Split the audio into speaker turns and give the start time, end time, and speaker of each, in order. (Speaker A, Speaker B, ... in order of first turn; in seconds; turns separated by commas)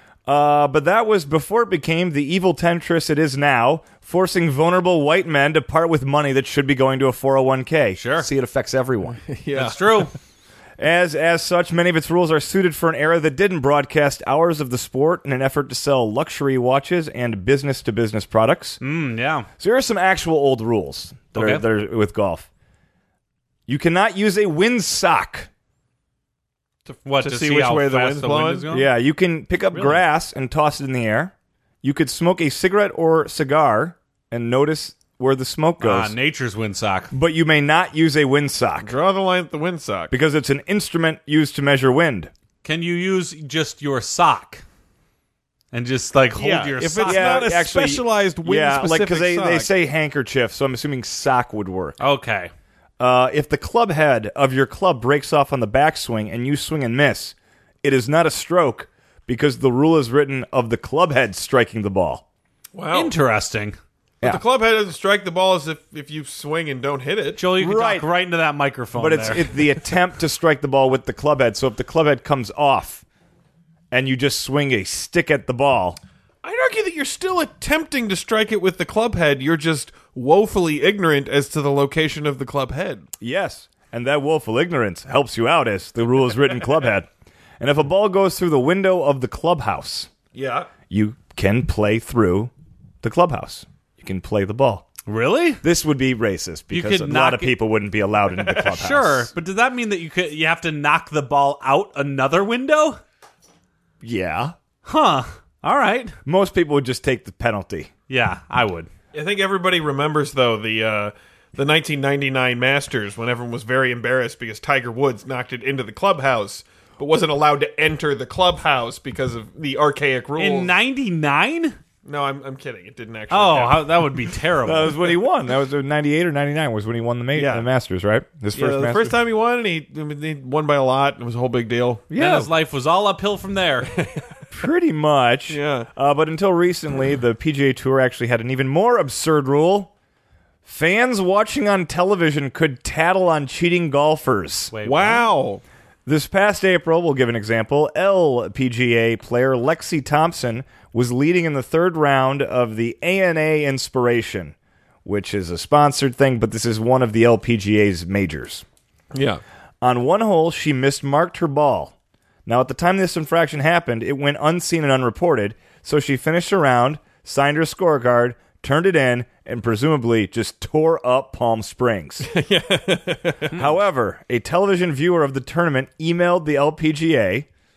Speaker A: 0.2-9.2, Speaker B: 8.0-8.3, Speaker C: 9.3-10.1, Speaker B: 9.5-10.1, Speaker A: 10.8-18.8, Speaker B: 18.8-19.5, Speaker A: 19.6-22.5, Speaker B: 21.3-21.6, Speaker A: 23.7-25.5, Speaker C: 26.9-28.6, Speaker B: 27.0-28.9, Speaker A: 28.7-36.1, Speaker B: 35.8-37.1, Speaker A: 37.1-38.9, Speaker C: 38.8-40.1, Speaker A: 40.1-42.3, Speaker B: 42.6-44.6, Speaker B: 45.7-47.5, Speaker C: 46.4-49.7, Speaker A: 47.0-52.0, Speaker B: 52.0-52.5, Speaker A: 53.0-62.2, Speaker C: 62.7-63.1, Speaker B: 62.9-63.8, Speaker C: 64.2-67.4, Speaker B: 67.4-69.5, Speaker A: 67.6-68.1, Speaker A: 69.0-73.0, Speaker A: 73.9-76.0, Speaker C: 76.4-83.0, Speaker A: 83.2-87.1, Speaker A: 87.6-90.1, Speaker C: 90.3-90.7, Speaker A: 90.9-92.5, Speaker A: 93.0-94.9, Speaker B: 95.0-95.6, Speaker A: 95.6-99.3, Speaker B: 96.7-97.5, Speaker C: 98.4-98.8, Speaker B: 98.7-103.0, Speaker A: 104.0-104.5, Speaker B: 104.8-106.1, Speaker A: 106.2-107.9, Speaker B: 108.1-108.9, Speaker C: 109.1-120.7, Speaker B: 120.3-121.8, Speaker C: 122.0-124.1, Speaker B: 123.3-125.0, Speaker A: 124.6-129.2, Speaker C: 127.3-127.7, Speaker C: 128.5-132.1, Speaker A: 132.1-132.5, Speaker B: 132.1-133.9, Speaker C: 133.9-134.2, Speaker A: 134.5-139.9, Speaker C: 135.5-135.9, Speaker A: 140.6-144.7, Speaker B: 144.7-145.2, Speaker C: 144.8-145.6, Speaker A: 146.1-158.6, Speaker C: 159.1-159.4, Speaker A: 159.8-161.9, Speaker A: 162.4-172.3, Speaker C: 172.2-173.6, Speaker A: 173.5-177.5